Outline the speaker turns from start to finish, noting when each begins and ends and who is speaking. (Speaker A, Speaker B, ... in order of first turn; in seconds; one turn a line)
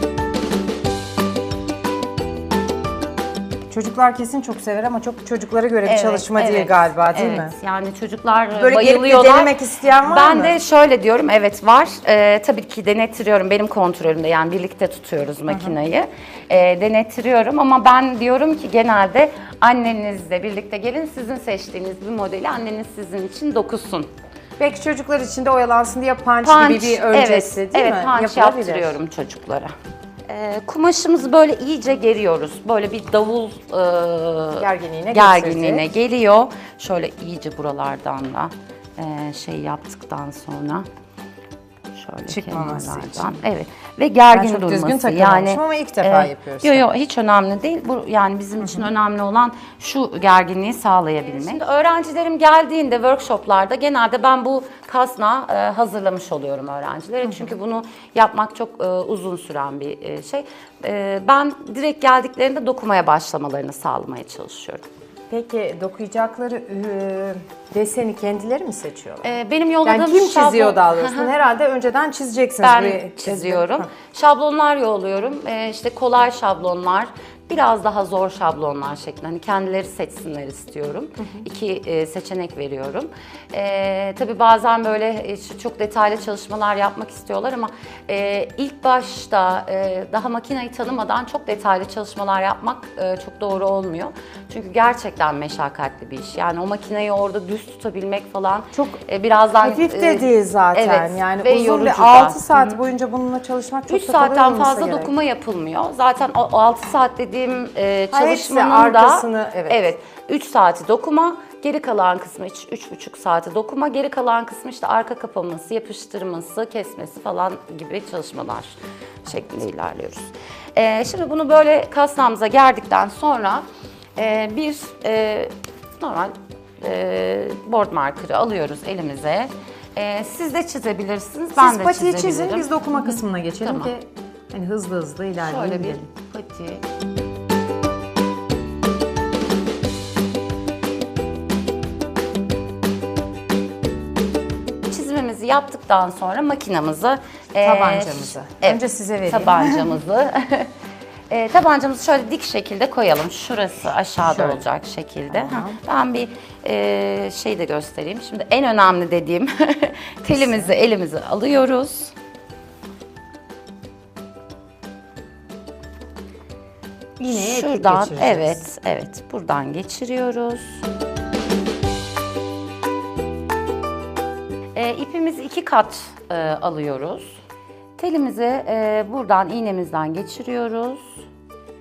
Speaker A: 3.7-7.5
Speaker B: 5.8-24.1
Speaker A: 8.6-10.6
Speaker A: 15.5-15.8
Speaker A: 24.6-29.0
Speaker B: 26.4-29.7
Speaker B: 30.3-40.9
Speaker A: 34.6-35.9
Speaker B: 41.9-64.8
Speaker A: 42.3-43.4
Speaker A: 44.3-46.9
Speaker A: 48.6-48.9
Speaker A: 57.2-57.5
Speaker A: 65.3-73.9
Speaker B: 69.2-71.3
Speaker B: 72.6-102.8
Speaker A: 98.7-99.0
Speaker A: 99.6-105.1
Speaker B: 103.9-123.7
Speaker A: 108.1-109.8
Speaker B: 124.2-133.9
Speaker A: 131.6-136.1
Speaker B: 135.4-136.8
Speaker B: 144.9-150.7
Speaker A: 147.6-150.0
Speaker B: 151.3-162.1
Speaker A: 154.2-154.6
Speaker A: 155.3-155.8
Speaker A: 160.3-160.7
Speaker A: 167.2-168.6
Speaker B: 167.3-170.8
Speaker B: 174.8-177.4
Speaker B: 178.0-181.3